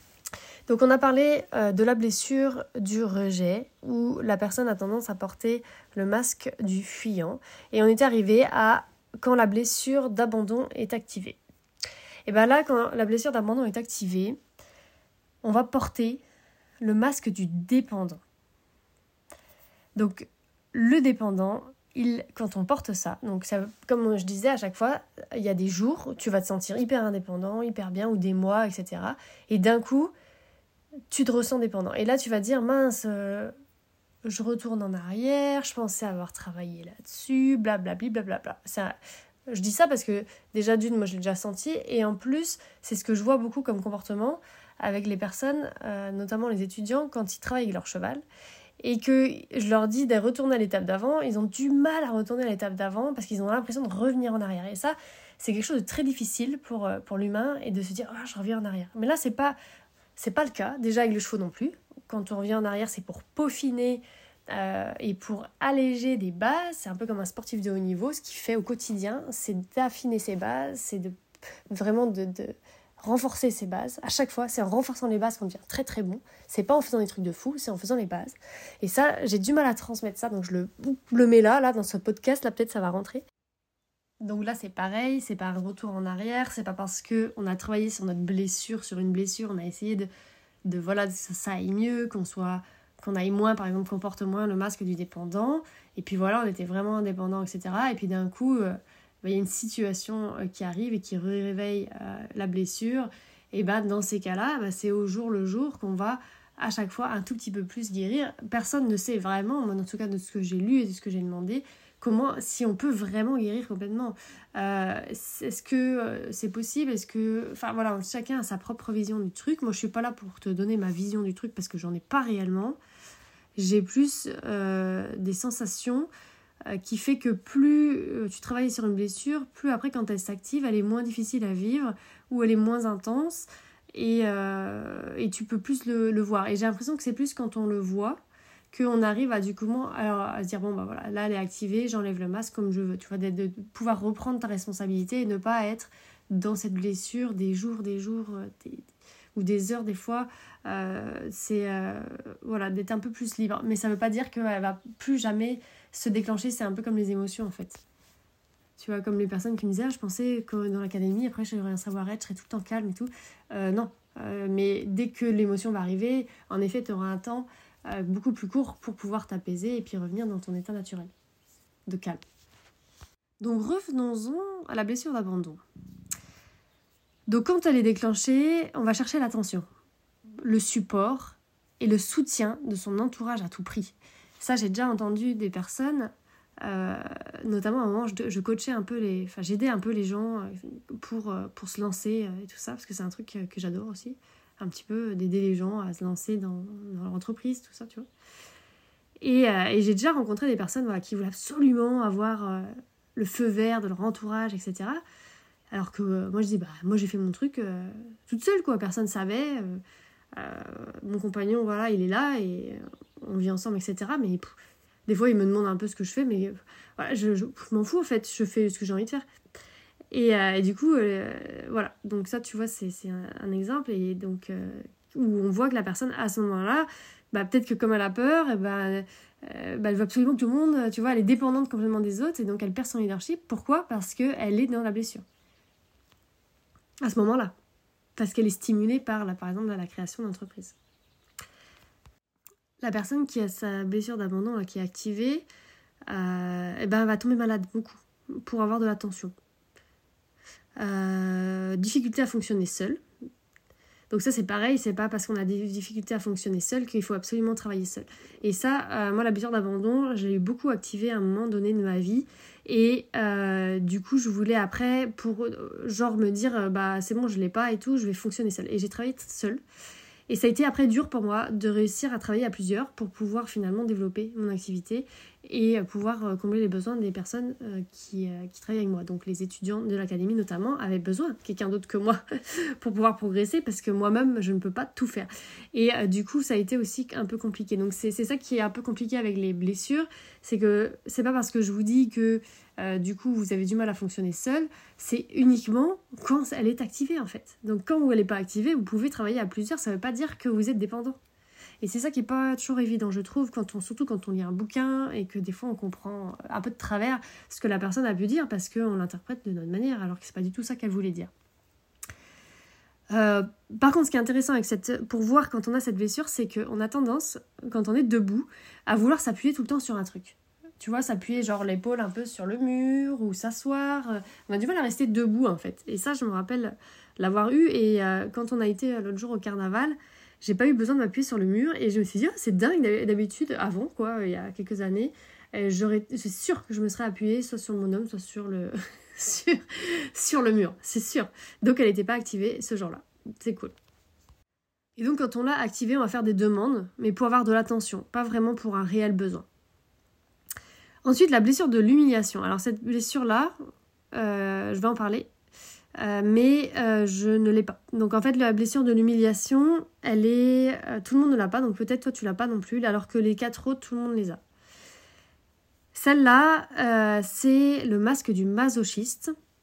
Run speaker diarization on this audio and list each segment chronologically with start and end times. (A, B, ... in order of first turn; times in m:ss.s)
0:00.7-0:11.4 A
0:12.3-0:14.4 A
0:15.4-0:16.2 A
0:16.8-0:18.2 A
0:20.0-0:30.1 A
0:31.1-0:33.5 A
0:34.2-0:39.0 A
0:39.5-0:48.2 A
0:48.8-0:59.6 A
1:00.2-1:11.1 A
1:11.7-1:23.2 A
1:24.2-1:30.1 A
1:30.6-2:02.8 A
2:03.6-2:06.1 A
2:06.7-2:18.2 A
2:18.7-2:37.8 A
2:38.8-2:51.1 A
2:51.9-2:52.2 A
2:53.4-2:55.6 A
2:57.3-2:59.6 A
3:00.4-3:06.1 A
3:06.6-3:18.1 A
3:19.2-3:25.0 A
3:25.7-3:29.8 A
3:30.3-3:34.5 A
3:35.1-3:39.2 A
3:40.1-3:55.2 A
3:57.0-3:57.5 A
3:58.2-4:00.8 A
4:02.8-4:05.4 A
4:06.1-4:09.3 A
4:10.8-4:13.0 A
4:14.1-4:29.6 A
4:30.3-5:01.2 A
5:01.8-5:11.3 A
5:13.1-5:43.7 A
5:45.0-5:49.4 A
5:51.0-5:53.5 A
5:54.1-5:55.3 A
5:56.0-6:04.4 A
6:05.9-6:09.3 A